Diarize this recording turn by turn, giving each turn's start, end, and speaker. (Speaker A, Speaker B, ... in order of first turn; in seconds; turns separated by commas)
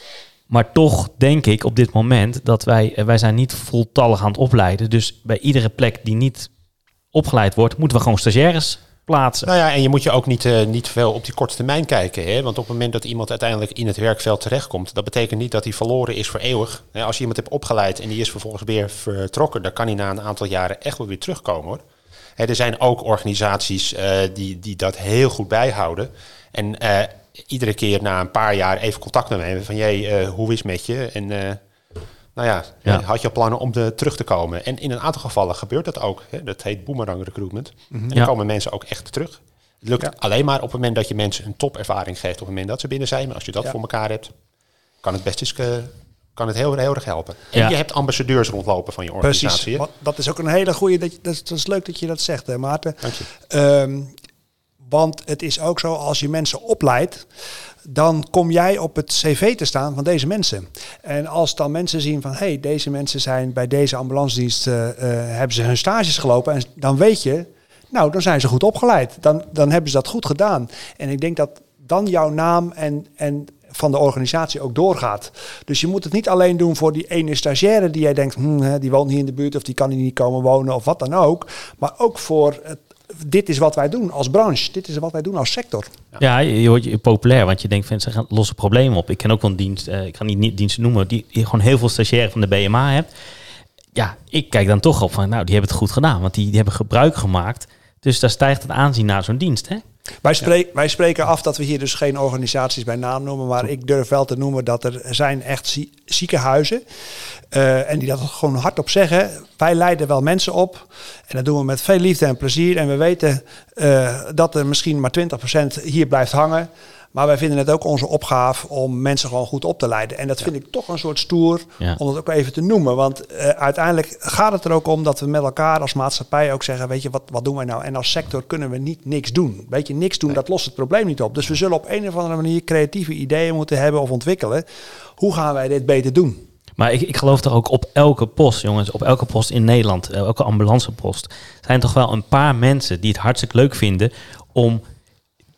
Speaker A: 0.5-6.5, Speaker A: 7.1-9.5, Speaker B: 9.4-21.8, Speaker B: 22.4-31.6, Speaker B: 32.3-44.3, Speaker B: 45.0-49.8, Speaker C: 49.2-54.1, Speaker C: 54.8-57.2, Speaker C: 57.8-85.9, Speaker A: 86.2-93.1, Speaker A: 93.9-99.8, Speaker C: 100.2-106.8, Speaker C: 107.5-134.6, Speaker C: 135.2-136.4, Speaker A: 136.8-144.8